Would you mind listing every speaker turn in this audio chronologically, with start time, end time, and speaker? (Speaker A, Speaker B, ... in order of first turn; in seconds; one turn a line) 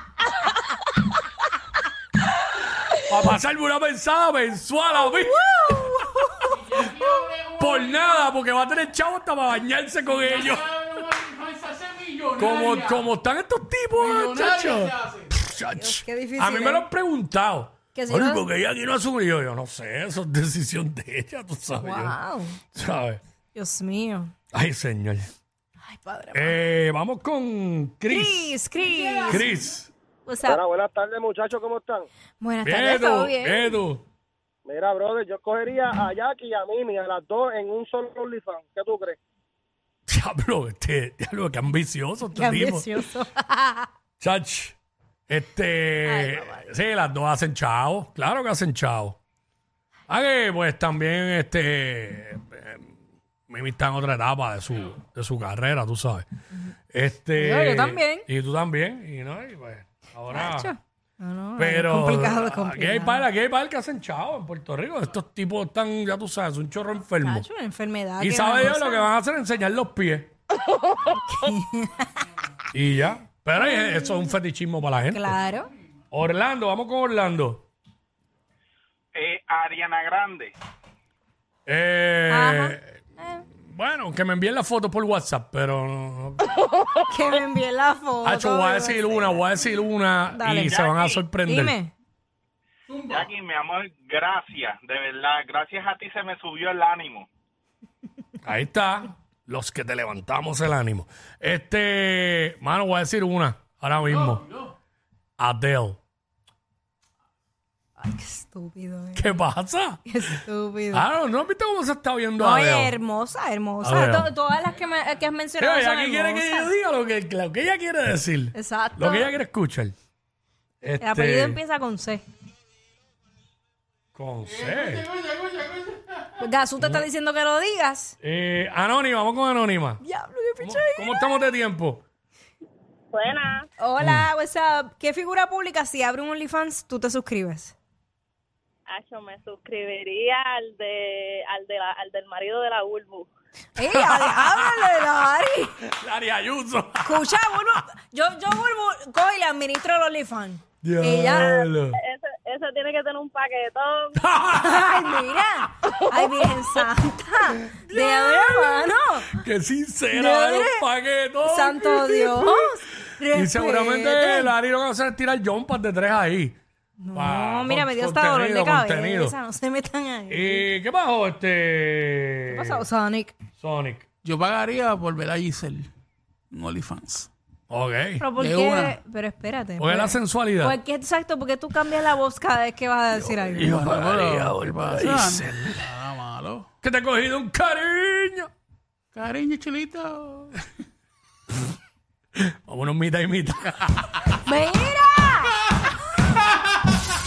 Speaker A: 3.0-5.8
Speaker B: 5.4-6.4
Speaker C: 6.5-8.2
Speaker A: 7.6-10.8
Speaker C: 10.3-13.0
Speaker A: 12.3-22.2
Speaker C: 14.0-15.3
Speaker B: 15.8-16.9
Speaker B: 17.9-18.4
Speaker B: 21.8-22.6
Speaker A: 22.7-23.2
Speaker B: 23.5-24.3
Speaker A: 24.5-25.3
Speaker B: 25.9-26.6
Speaker A: 26.3-28.6
Speaker B: 28.1-29.4
Speaker A: 29.3-29.9
Speaker B: 30.3-30.6
Speaker D: 30.5-32.1
Speaker B: 32.4-33.8
Speaker A: 32.6-34.0
Speaker D: 34.7-39.2
Speaker A: 40.1-43.0
Speaker B: 42.3-43.9
Speaker A: 44.2-44.8
Speaker A: 45.3-49.2
Speaker B: 46.0-46.7
Speaker A: 50.1-52.9
Speaker A: 53.5-56.3
Speaker A: 56.9-60.7
Speaker B: 57.4-58.3
Speaker B: 60.3-63.2
Speaker A: 61.6-67.5
Speaker B: 67.2-69.1
Speaker A: 68.2-70.3
Speaker B: 71.1-72.1
Speaker A: 72.7-75.4
Speaker B: 73.6-74.3
Speaker B: 75.1-75.7
Speaker A: 76.1-77.7
Speaker E: 79.1-80.5
Speaker A: 81.7-82.8
Speaker B: 82.3-83.4
Speaker A: 83.6-86.4
Speaker B: 87.1-89.2
Speaker A: 88.2-91.8
Speaker B: 90.3-90.8
Speaker E: 90.7-91.2
Speaker B: 91.5-91.9
Speaker C: 92.9-93.3
Speaker E: 93.1-97.3
Speaker A: 98.4-104.5
Speaker A: 105.4-106.0
Speaker B: 108.0-109.3
Speaker A: 109.2-110.0
Speaker B: 110.1-111.1
Speaker A: 110.9-113.0
Speaker B: 112.4-116.7
Speaker A: 113.8-114.3
Speaker A: 115.6-120.0
Speaker B: 118.5-119.3
Speaker A: 120.8-121.6
Speaker B: 121.0-122.2
Speaker A: 124.2-125.1
Speaker C: 124.5-126.3
Speaker B: 126.4-128.2
Speaker A: 126.8-127.1
Speaker A: 128.2-130.0
Speaker B: 130.0-131.3
Speaker A: 130.6-132.0
Speaker F: 133.1-133.7
Speaker B: 133.8-137.8
Speaker A: 134.0-134.3
Speaker F: 138.9-143.3
Speaker B: 143.8-145.8
Speaker A: 143.8-145.1
Speaker A: 145.8-147.5
Speaker B: 147.1-151.7
Speaker A: 150.8-152.0
Speaker F: 152.0-154.2
Speaker A: 154.2-155.3
Speaker B: 154.6-159.4
Speaker A: 157.7-162.7
Speaker B: 160.1-160.8
Speaker B: 161.4-164.5
Speaker A: 163.2-166.6
Speaker B: 167.0-170.7
Speaker A: 167.1-169.4
Speaker A: 170.3-172.8
Speaker B: 172.5-173.4
Speaker A: 173.6-174.1
Speaker C: 174.2-175.9
Speaker C: 176.5-177.3
Speaker A: 177.7-178.3
Speaker B: 178.2-183.9
Speaker C: 178.4-178.9
Speaker A: 179.8-180.8
Speaker A: 183.2-185.9
Speaker C: 183.6-186.7
Speaker A: 186.8-188.5
Speaker C: 189.1-190.5
Speaker A: 192.4-194.2
Speaker B: 194.4-195.6